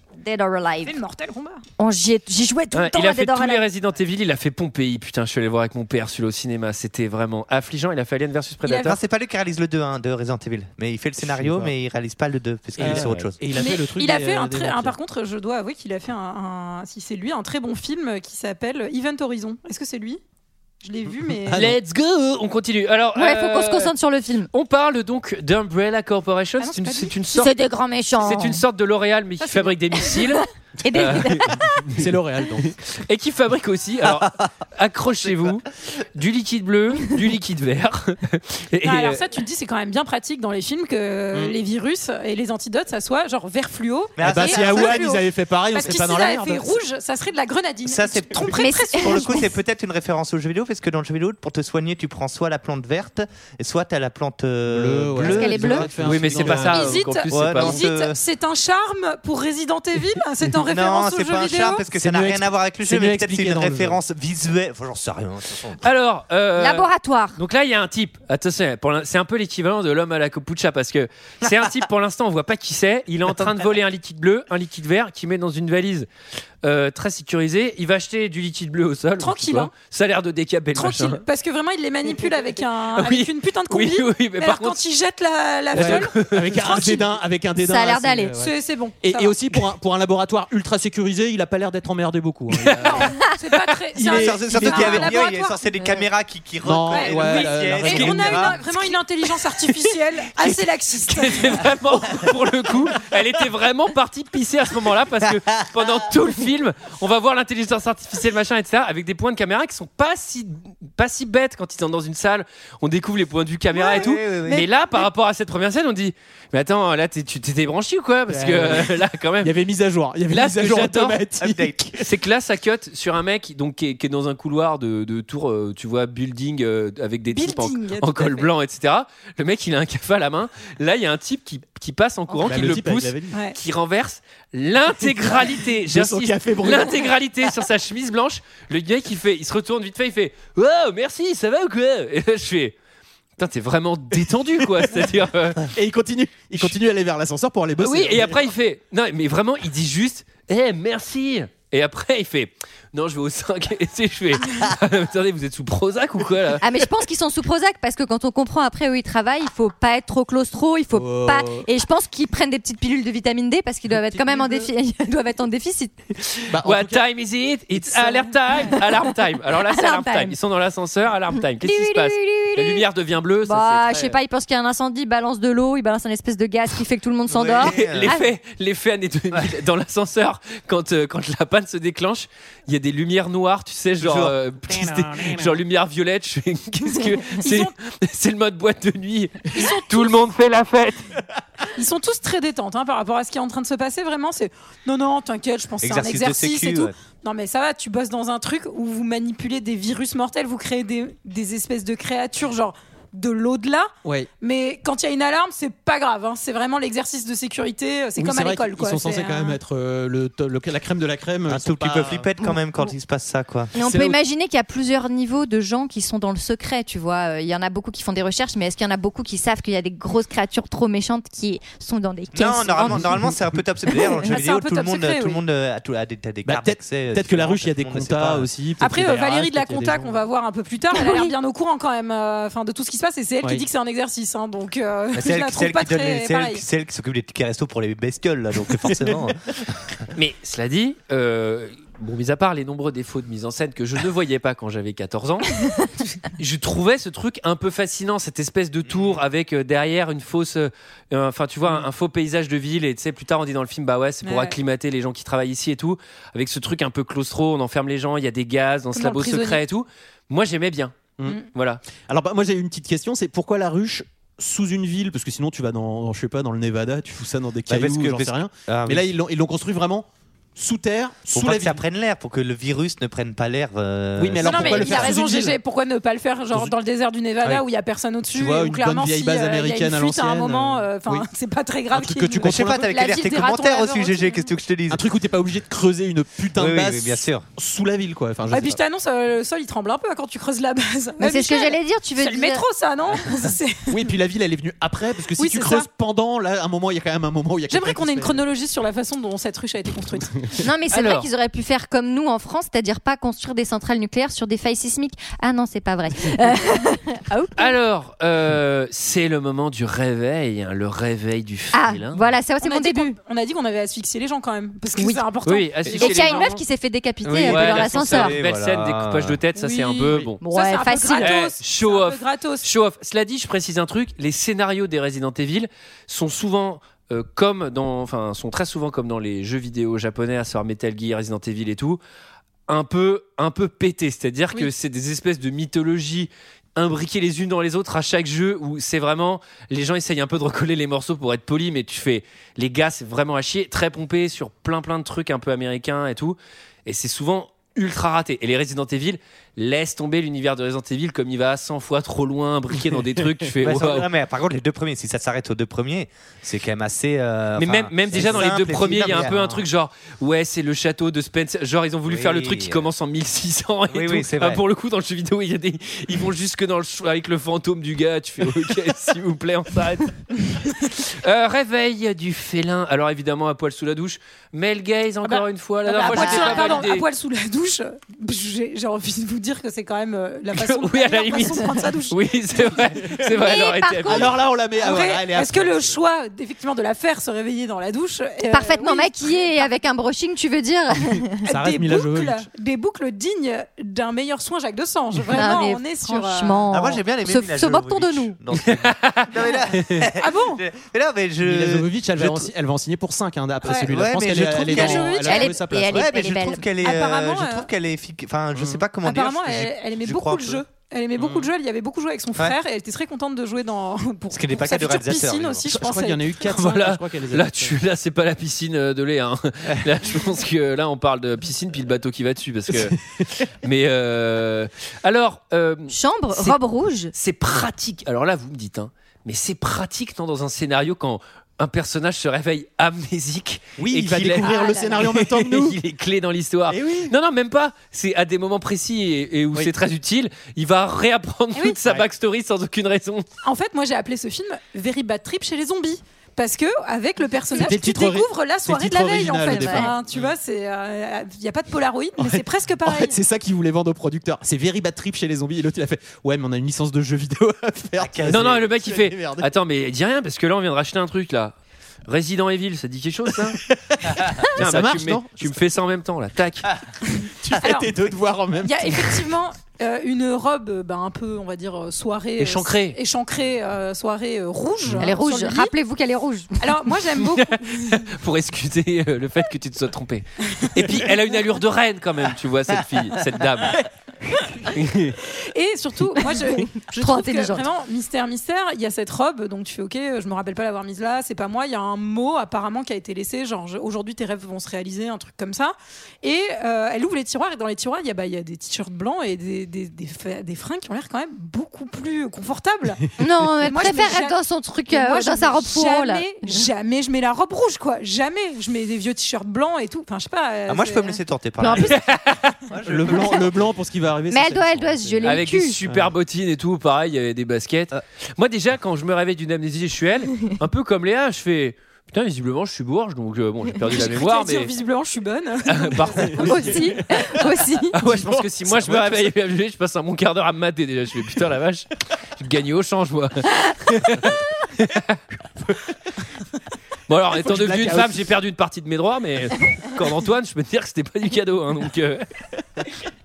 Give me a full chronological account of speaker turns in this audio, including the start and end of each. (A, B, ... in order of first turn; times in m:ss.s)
0:00.2-0:01.0 A
0:00.8-0:01.6 B
0:01.8-0:03.7 A
0:02.7-0:09.0 C
0:08.6-0:09.0 B
0:08.8-0:13.4 D
0:11.2-0:11.7 E
0:12.8-0:15.0 E
0:13.6-0:20.2 B
0:20.8-0:21.7 B
0:21.5-0:21.8 E
0:21.5-0:23.9 C
0:23.2-0:24.5 A
0:24.5-0:27.5 C
0:26.6-0:27.2 B
0:27.3-0:28.6 A
0:28.2-0:31.4 C
0:30.0-0:31.9 A
0:31.9-0:32.7 E
0:33.0-0:39.2 C
0:35.2-0:35.6 D
0:38.8-0:49.4 B
0:44.2-0:45.1 D
0:44.2-0:46.7 E
0:47.8-0:58.2 D
0:48.5-0:49.4 A
0:54.7-0:57.0 E
0:55.2-0:55.9 A
0:56.0-0:57.8 C
0:56.6-1:01.8 B
1:00.6-1:05.8 D
1:01.9-1:04.0 E
1:05.8-1:16.1 C
1:06.6-1:07.4 A
1:16.6-1:21.2 C
1:19.2-1:19.7 B
1:20.8-1:27.1 B
1:23.0-1:24.8 C
1:25.7-1:33.2 E
1:25.8-1:26.6 C
1:27.6-1:28.4 A
1:28.4-1:29.3 B
1:32.5-1:33.0 C
1:32.8-1:35.6 B
1:34.0-1:35.2 E
1:34.1-1:38.7 D
1:36.6-1:38.6 E
1:36.9-1:41.7 B
1:40.4-1:59.5 C
1:53.7-1:54.7 D
1:58.3-2:02.0 E
2:00.3-2:01.2 C
2:01.4-2:02.0 D
2:02.0-2:22.7 C
2:07.3-2:08.5 B
2:12.4-2:13.4 E
2:15.3-2:17.1 E
2:23.4-2:25.6 C
2:25.7-2:28.5 E
2:27.8-2:36.6 C
2:36.6-2:46.0 A
2:40.9-2:41.7 E
2:43.9-2:44.7 E
2:46.2-2:54.2 C
2:46.5-2:47.0 E
2:47.8-2:48.2 E
2:49.5-2:50.4 A
2:51.6-2:52.8 A
2:53.4-2:58.3 A
2:57.3-2:58.1 D
2:57.6-3:11.1 C
3:04.0-3:04.4 D
3:05.0-3:05.3 D
3:07.4-3:07.7 B
3:09.5-3:10.2 B
3:11.7-3:29.6 B
3:15.8-3:16.9 D
3:28.2-3:32.3 E
3:31.5-3:33.7 D
3:33.8-3:43.3 A
3:33.9-3:34.2 E
3:42.3-3:48.5 D
3:42.8-3:43.4 E
3:43.9-3:44.2 A
3:44.2-3:45.4 B
3:46.4-3:50.2 E
3:48.8-3:56.6 B
3:50.9-3:51.3 A
3:55.1-3:59.9 D
3:58.8-3:59.3 E
4:00.2-4:05.5 C
4:06.4-4:21.8 C
4:08.9-4:09.2 D
4:14.2-4:14.6 B
4:18.9-4:19.6 B
4:22.0-4:31.8 E
4:27.7-4:29.1 D
4:31.3-4:35.2 D
4:34.2-4:35.6 E
4:34.4-4:44.5 B
4:38.3-4:41.3 E
4:41.9-4:42.9 E
4:42.4-4:45.0 D
4:44.9-4:48.8 E
4:46.6-4:47.5 D
4:48.5-4:54.0 B
4:51.2-4:52.6 A
4:53.9-4:58.4 E
4:55.4-4:55.9 B
4:57.7-5:00.4 B
5:00.6-5:07.8 A
5:00.9-5:01.3 C
5:07.6-5:12.2 C
5:11.7-5:13.2 A
5:12.6-5:16.6 B
5:14.9-5:15.2 A
5:15.4-5:16.6 C
5:15.9-5:18.4 A
5:17.2-5:19.4 D
5:17.4-5:20.4 C
5:19.6-5:22.7 B
5:20.4-5:21.4 A
5:21.2-5:32.0 C
5:32.7-5:54.1 C
5:53.6-5:59.6 D
5:57.6-6:17.1 C
5:58.1-5:58.5 E
6:02.0-6:02.9 D
6:03.9-6:04.6 D
6:15.2-6:22.9 B
6:15.9-6:16.9 A
6:20.5-6:24.3 C
6:22.8-6:23.2 E
6:23.3-6:24.3 A
6:24.1-6:26.0 E
6:24.8-6:29.7 B
6:28.5-6:31.4 A
6:31.4-6:36.6 B
6:31.5-6:32.4 E
6:35.3-6:38.4 A
6:36.7-6:42.5 D
6:38.6-6:39.3 C
6:40.2-6:40.6 B
6:41.4-6:46.0 E
6:43.6-6:50.6 D
6:44.6-6:45.5 B
6:45.2-6:46.6 A
6:46.8-6:47.7 B
6:48.6-6:48.8 E
6:49.0-6:56.5 B
6:54.3-6:55.7 D
6:55.7-6:57.8 E
6:56.5-7:03.0 C
7:03.6-7:06.6 C
7:05.9-7:07.1 A
7:07.1-7:23.2 C
7:13.8-7:15.8 E
7:14.5-7:14.9 B
7:16.7-7:17.1 E
7:23.4-7:33.2 B
7:27.6-7:30.0 E
7:29.4-7:29.9 A
7:32.2-7:39.5 E
7:38.0-7:38.6 D
7:38.3-7:41.6 C
7:42.1-7:43.6 C
7:43.4-7:45.6 E
7:44.6-7:46.7 C
7:47.4-7:49.2 E
7:47.6-7:47.9 B
7:48.6-7:55.7 B
7:52.4-7:53.0 C
7:55.0-7:56.5 A
7:56.6-7:58.0 B
7:57.3-8:03.8 C
8:04.6-8:05.2 C
8:05.3-8:23.0 B
8:06.3-8:07.7 A
8:23.2-8:26.6 A
8:23.6-8:31.2 B
8:30.7-8:32.0 D
8:31.6-8:32.0 A
8:31.9-8:32.6 C
8:32.7-8:33.5 D
8:32.8-8:36.1 E
8:34.3-8:35.8 A
8:35.2-8:44.7 C
8:43.9-8:46.9 B
8:45.7-8:46.4 C
8:46.2-8:47.4 E
8:46.4-8:48.0 A
8:47.9-8:51.9 C
8:48.0-8:49.3 E
8:52.4-8:55.8 C
8:57.1-9:02.3 C
8:57.4-8:58.2 E